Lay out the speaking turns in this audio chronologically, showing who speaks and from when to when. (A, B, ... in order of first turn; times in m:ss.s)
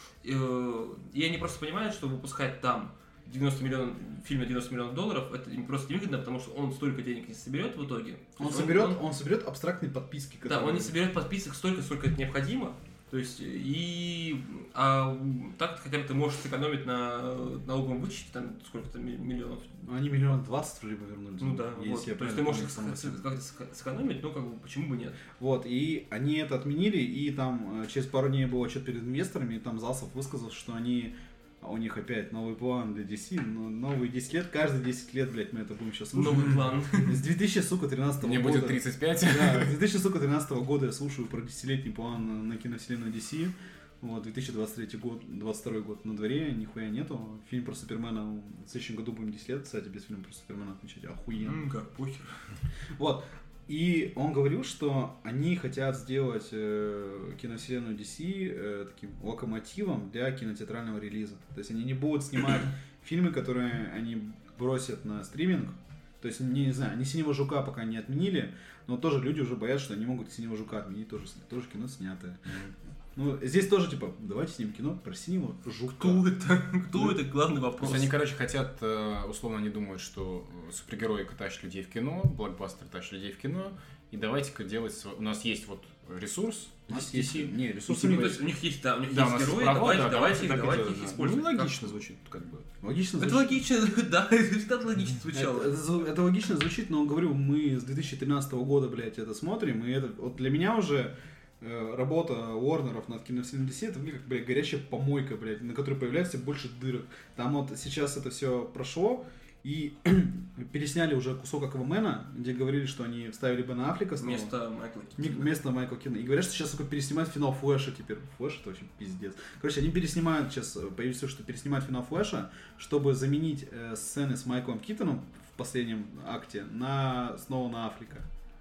0:00.2-0:09.0 A
0:08.4-0:11.0 B
0:10.4-0:19.8 A
0:19.8-0:23.2 B
0:21.4-0:25.2 A
0:25.4-0:51.6 B
0:36.1-0:37.2 A
0:38.2-0:39.8 C
0:51.4-0:52.4 A
0:53.0-1:12.4 B
1:12.5-1:12.7 C
1:13.2-1:16.2 B
1:15.9-1:18.1 A
1:17.8-1:27.5 C
1:26.9-1:28.4 B
1:27.8-1:32.0 A
1:29.1-1:32.6 C
1:32.8-1:33.6 B
1:33.2-1:35.8 A
1:35.3-1:54.5 B
1:54.2-1:55.5 A
1:55.2-2:08.3 B